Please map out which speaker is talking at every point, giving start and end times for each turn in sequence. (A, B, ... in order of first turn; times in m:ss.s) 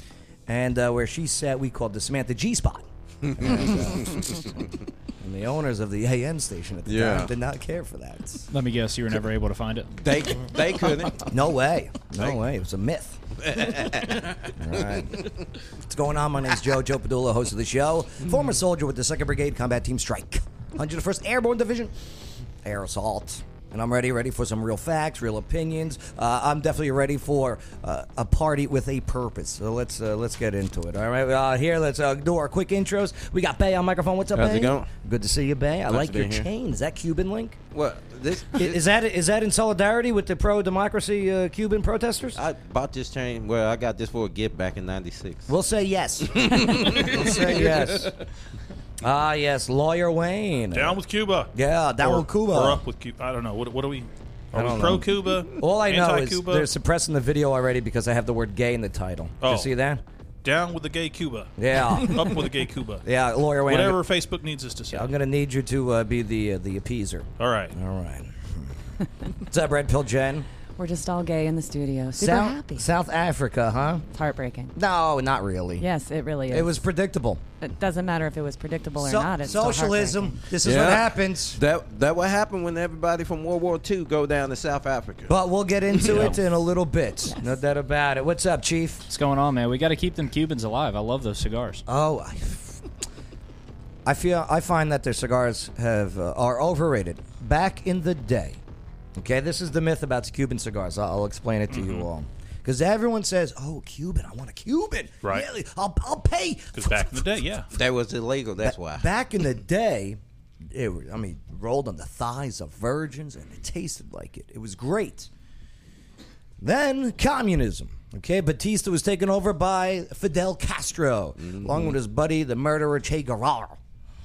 0:00.5-0:04.6 A
0:03.2-0:04.5 B
0:05.2-0:08.5 A
0:06.9-0:07.3 B
0:08.5-0:09.9 C
0:10.0-0:11.3 B
0:11.2-0:15.3 A
0:13.4-0:14.5 B
0:15.9-0:22.0 A
0:22.6-0:37.6 A
0:34.3-0:34.9 B
0:35.9-0:36.5 B
0:37.7-0:38.8 B
0:38.5-0:42.4 A
0:42.4-0:45.5 B
0:45.5-0:48.2 A
0:46.4-0:48.1 B
0:49.0-0:51.0 A
0:50.7-0:56.7 D
0:51.5-0:52.8 A
0:54.5-1:00.0 A
0:59.4-0:59.7 D
1:00.4-1:05.1 D
1:01.6-1:02.4 A
1:03.0-1:04.0 A
1:04.9-1:08.8 A
1:07.4-1:07.8 D
1:09.4-1:10.5 A
1:10.8-1:12.8 E
1:12.2-1:14.0 A
1:14.1-1:14.7 E
1:14.8-1:15.9 A
1:15.8-1:16.8 E
1:16.5-1:17.4 A
1:17.6-1:20.4 E
1:19.0-1:21.6 A
1:20.6-1:25.3 B
1:25.3-1:29.1 A
1:26.0-1:26.3 B
1:27.3-1:27.6 E
1:29.1-1:31.8 C
1:31.9-1:32.8 A
1:34.0-1:38.6 A
1:39.2-1:47.5 A
1:41.7-1:42.1 D
1:46.7-1:47.7 D
1:47.7-1:49.1 B
1:48.6-1:55.3 A
1:56.6-2:03.8 A
2:01.5-2:01.9 B